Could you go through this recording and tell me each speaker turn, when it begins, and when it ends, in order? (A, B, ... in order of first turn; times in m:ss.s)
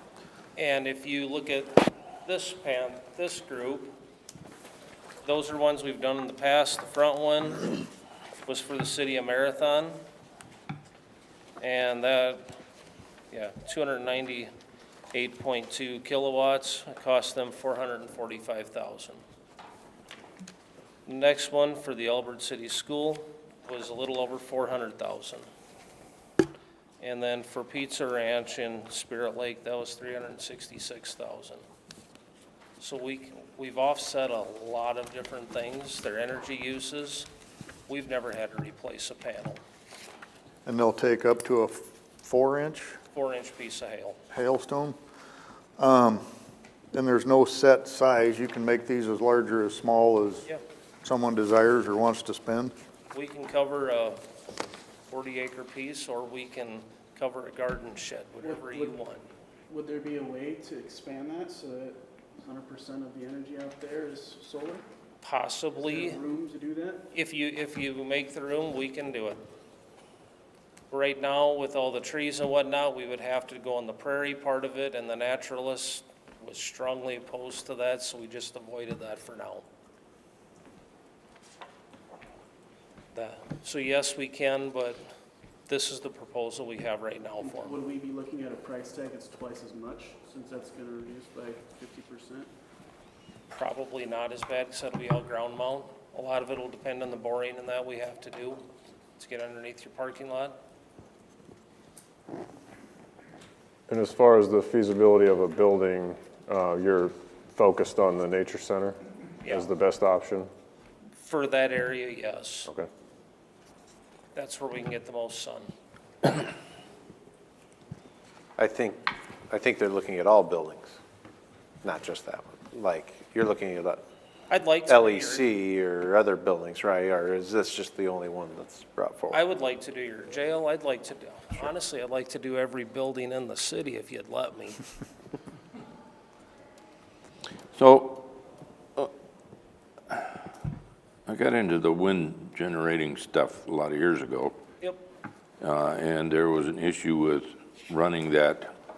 0:00.6-0:03.9 A
0:05.2-0:07.8 A
0:08.4-0:10.0 A
0:11.6-0:12.5 A
0:13.3-0:14.5 A
0:15.1-0:19.2 A
0:21.0-0:25.4 A
0:27.0-0:31.6 A
0:32.8-0:37.3 A
0:37.9-0:39.6 A
0:40.6-0:43.0 B
0:43.1-0:44.2 A
0:44.3-0:45.0 B
0:45.8-0:46.2 B
0:46.9-0:50.4 B
0:51.0-0:52.7 B
0:53.1-0:54.2 A
0:55.1-0:59.2 A
0:58.4-0:59.0 C
0:59.7-1:04.8 C
1:05.2-1:06.2 A
1:05.7-1:07.1 C
1:07.1-1:09.4 A
1:10.9-1:19.6 A
1:23.1-1:25.0 A
1:25.7-1:27.8 A
1:27.4-1:32.5 C
1:33.5-1:38.6 A
1:39.2-1:40.6 A
1:43.9-1:50.5 D
1:51.2-1:52.7 A
1:54.3-1:55.7 A
1:58.6-2:01.0 E
2:01.8-2:04.0 E
2:04.5-2:05.5 A
2:04.9-2:09.4 E
2:09.3-2:14.8 A
2:17.8-2:18.3 F
2:21.3-2:24.5 F
2:25.6-2:28.7 F